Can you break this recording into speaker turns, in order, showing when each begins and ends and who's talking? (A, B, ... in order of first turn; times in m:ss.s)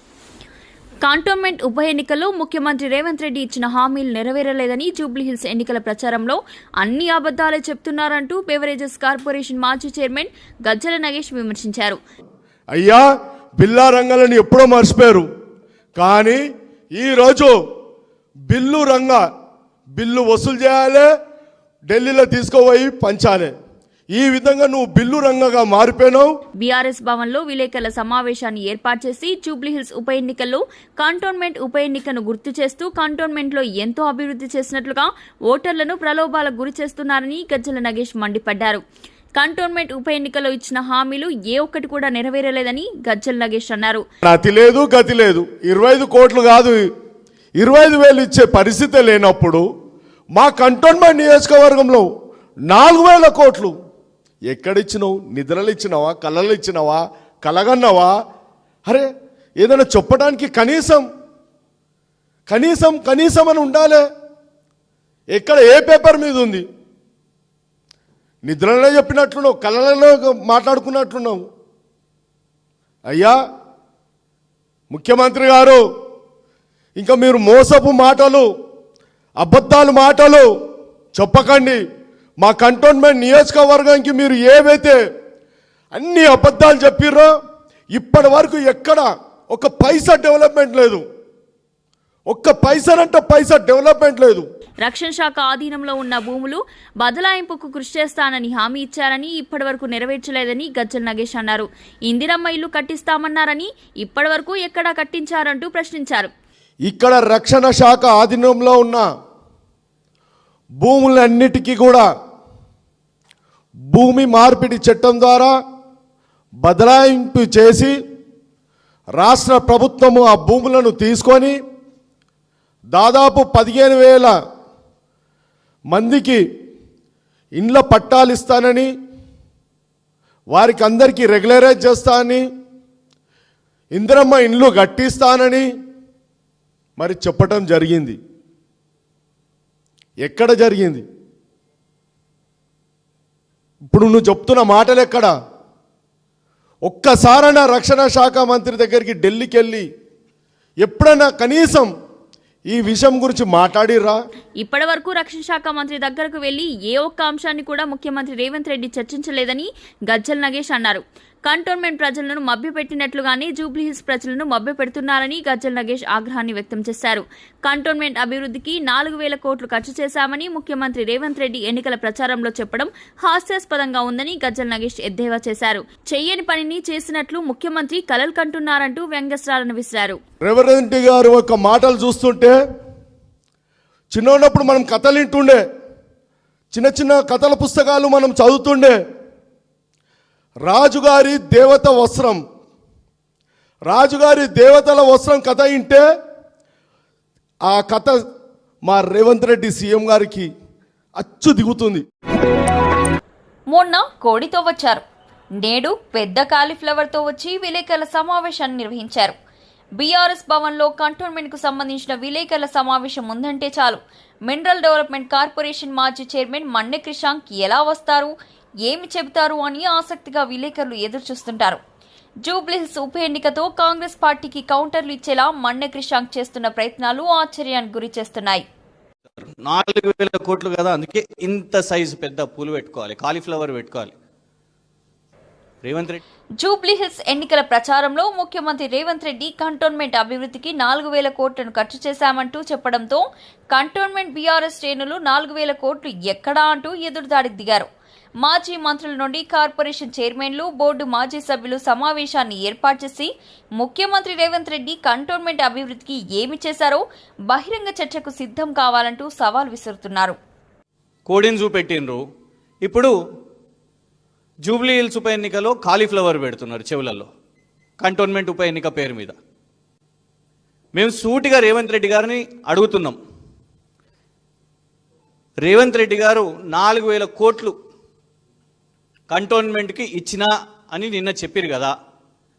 0:01.0-0:12.0 A
0:12.8-0:13.1 B
0:13.6-0:15.3 B
0:16.0-0:16.4 B
0:16.9-0:17.5 B
0:18.5-0:19.2 B
0:19.9-0:21.1 B
0:21.9-0:23.5 B
0:24.1-0:26.3 B
0:26.6-0:38.8 A
0:39.3-0:44.0 A
0:44.2-0:46.8 B
0:47.6-0:49.6 B
0:50.3-0:52.1 B
0:52.7-0:53.7 B
0:54.5-0:58.1 B
0:59.6-1:01.1 B
1:02.5-1:04.0 B
1:05.3-1:06.6 B
1:08.4-1:11.4 B
1:13.1-1:13.4 B
1:14.9-1:15.8 B
1:17.0-1:18.5 B
1:19.4-1:20.5 B
1:21.1-1:21.8 B
1:22.4-1:25.0 B
1:25.9-1:27.3 B
1:27.9-1:31.0 B
1:32.3-1:34.5 B
1:34.8-1:46.3 A
1:46.9-1:49.0 B
1:50.8-1:52.1 B
1:53.9-1:55.6 B
1:56.6-1:58.0 B
1:59.2-2:01.6 B
2:02.9-2:04.3 B
2:05.9-2:06.4 B
2:07.6-2:08.9 B
2:10.5-2:12.4 B
2:13.9-2:15.7 B
2:17.0-2:18.2 B
2:20.2-2:21.0 B
2:23.9-2:25.3 B
2:26.8-2:29.9 B
2:30.8-2:31.9 B
2:32.7-2:34.2 B
2:34.6-3:00.2 A
3:00.4-3:02.6 B
3:04.1-3:05.6 B
3:06.7-3:09.0 B
3:10.6-3:12.4 B
3:13.9-3:16.0 B
3:17.7-3:18.2 B
3:18.8-3:20.5 B
3:21.2-3:22.0 B
3:23.7-3:25.0 A
3:25.6-3:29.3 A
3:30.0-3:38.3 A
3:38.8-3:41.8 A
3:42.4-3:48.6 A
3:49.4-3:54.1 C
3:55.8-3:56.2 C
3:56.6-4:07.9 A
4:08.4-4:20.4 A
4:21.3-4:22.2 C
4:22.8-4:23.1 C
4:24.6-4:27.3 C
4:28.0-4:29.4 C
4:30.9-4:33.2 C
4:35.6-4:37.8 C
4:39.3-4:41.9 C